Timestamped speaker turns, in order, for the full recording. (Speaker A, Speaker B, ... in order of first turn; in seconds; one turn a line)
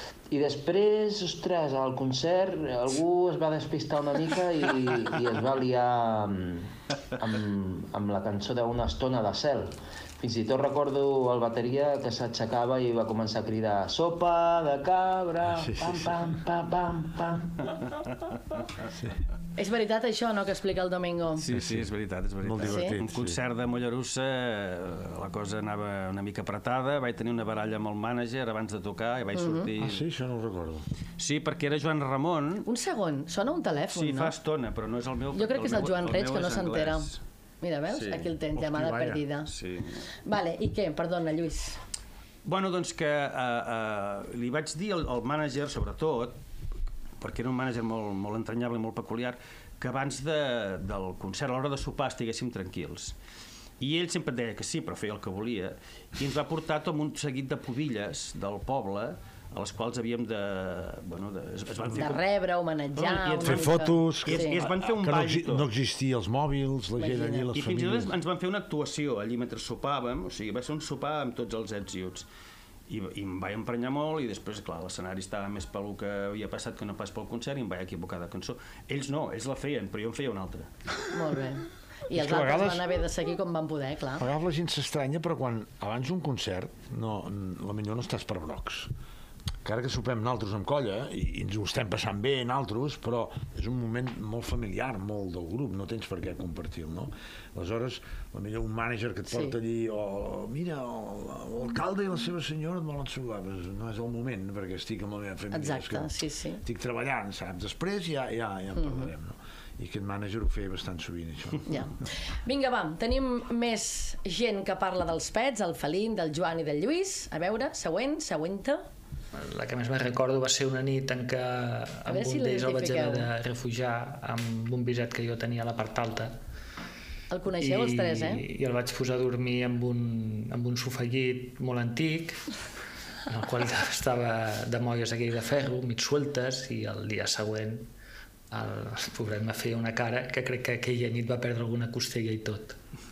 Speaker A: 0.3-17.6
Speaker B: 15.5-16.3
Speaker C: 19.6-21.4
Speaker D: 21.4-30.1
Speaker B: 21.5-21.9
Speaker B: 22.4-23.4
Speaker C: 22.6-22.9
Speaker C: 29.4-29.7
Speaker B: 29.8-30.9
Speaker D: 31.2-32.7
Speaker C: 32.7-34.3
Speaker D: 33.9-37.2
Speaker C: 35.3-37.1
Speaker C: 37.6-39.5
Speaker D: 37.9-38.3
Speaker B: 38.6-39.2
Speaker D: 39.5-40.0
Speaker C: 40.2-41.8
Speaker D: 42.5-46.4
Speaker D: 47.2-53.1
Speaker D: 53.8-62.2
Speaker C: 61.9-64.6
Speaker D: 63.0-65.7
Speaker B: 63.4-68.2
Speaker C: 67.0-67.5
Speaker D: 67.5-72.3
Speaker D: 72.9-80.7
Speaker C: 81.1-84.2
Speaker B: 82.1-83.0
Speaker B: 84.2-88.9
Speaker B: 89.6-106.1
Speaker C: 99.3-99.6
Speaker C: 105.5-106.6
Speaker B: 106.6-111.7
Speaker C: 108.8-109.1
Speaker C: 111.7-118.8
Speaker E: 119.3-126.3
Speaker C: 122.1-123.3
Speaker C: 127.3-128.4
Speaker E: 127.6-132.4
Speaker E: 133.3-137.9
Speaker E: 138.5-142.8